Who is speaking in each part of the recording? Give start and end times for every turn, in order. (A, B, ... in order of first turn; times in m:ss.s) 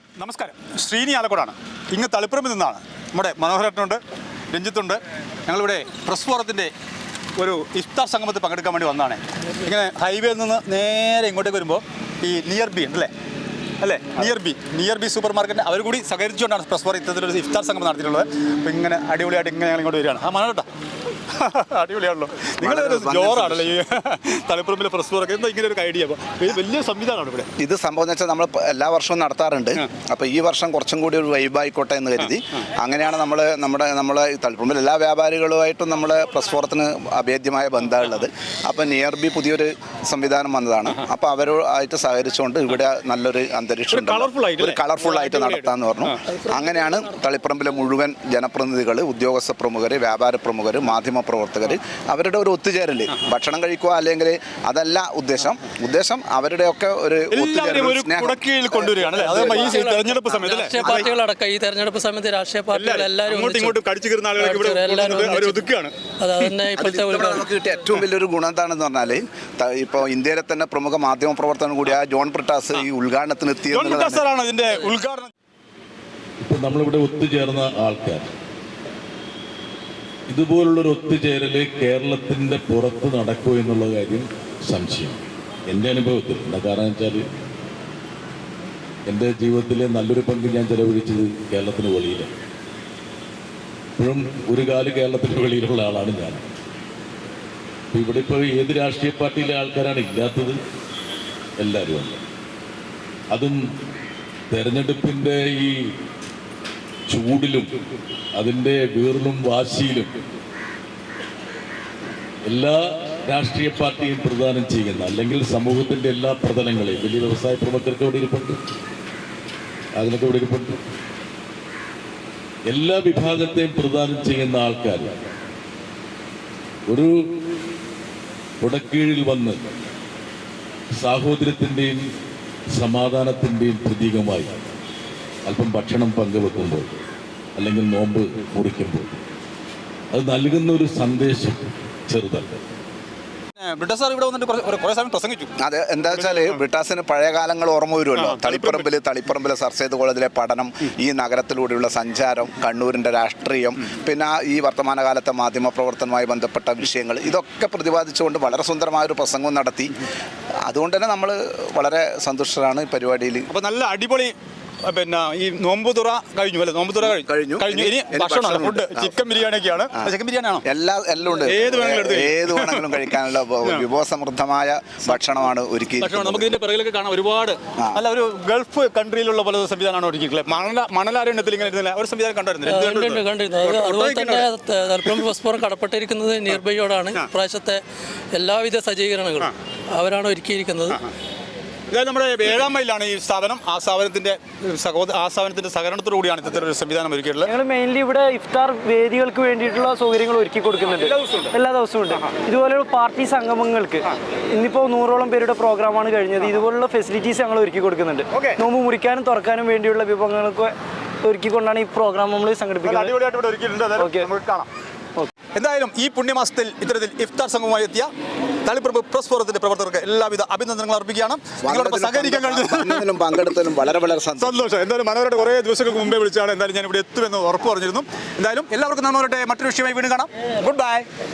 0:00.2-0:06.7 A
0:07.4-0:13.1 A
0:13.8-0:20.7 A
0:21.3-0:27.5 A
0:22.6-0:23.8 B
0:27.6-0:59.8 B
0:43.9-0:46.3 A
0:57.3-1:01.1 A
0:59.4-1:03.8 C
1:02.7-1:06.6 A
1:04.3-1:05.7 C
1:06.2-1:07.5 C
1:06.7-1:14.2 B
1:13.7-1:15.3 A
1:16.4-1:18.3 D
1:20.3-1:27.2 D
1:29.0-1:32.3 D
1:34.0-1:36.4 D
1:37.9-1:40.6 D
1:41.6-1:42.2 D
1:43.3-1:43.6 D
1:44.5-1:45.8 D
1:47.1-1:47.7 D
1:48.3-1:50.1 D
1:52.4-1:58.6 D
1:59.9-2:00.8 D
2:02.7-2:05.1 D
2:06.9-2:07.1 D
2:08.6-2:09.6 D
2:11.0-2:12.0 D
2:12.7-2:14.5 D
2:15.4-2:16.9 D
2:17.6-2:19.2 D
2:20.1-2:22.6 D
2:23.6-2:25.5 A
2:25.6-2:40.0 B
2:26.1-2:26.6 A
2:28.2-2:28.9 A
2:40.6-2:43.5 B
2:43.5-2:44.3 A
2:44.8-2:50.6 A
2:47.0-2:50.1 B
2:50.6-2:56.6 B
2:51.4-2:53.1 A
2:56.0-3:04.5 A
3:02.6-3:07.8 C
3:05.0-3:05.3 A
3:08.3-3:11.0 C
3:11.9-3:17.5 A
3:17.4-3:33.1 E
3:20.9-3:21.5 A
3:28.3-3:28.6 A
3:32.8-3:34.7 A
3:34.0-3:34.3 E
3:35.5-3:38.1 A
3:38.6-3:43.1 A
3:41.6-3:44.6 B
3:44.4-3:51.1 A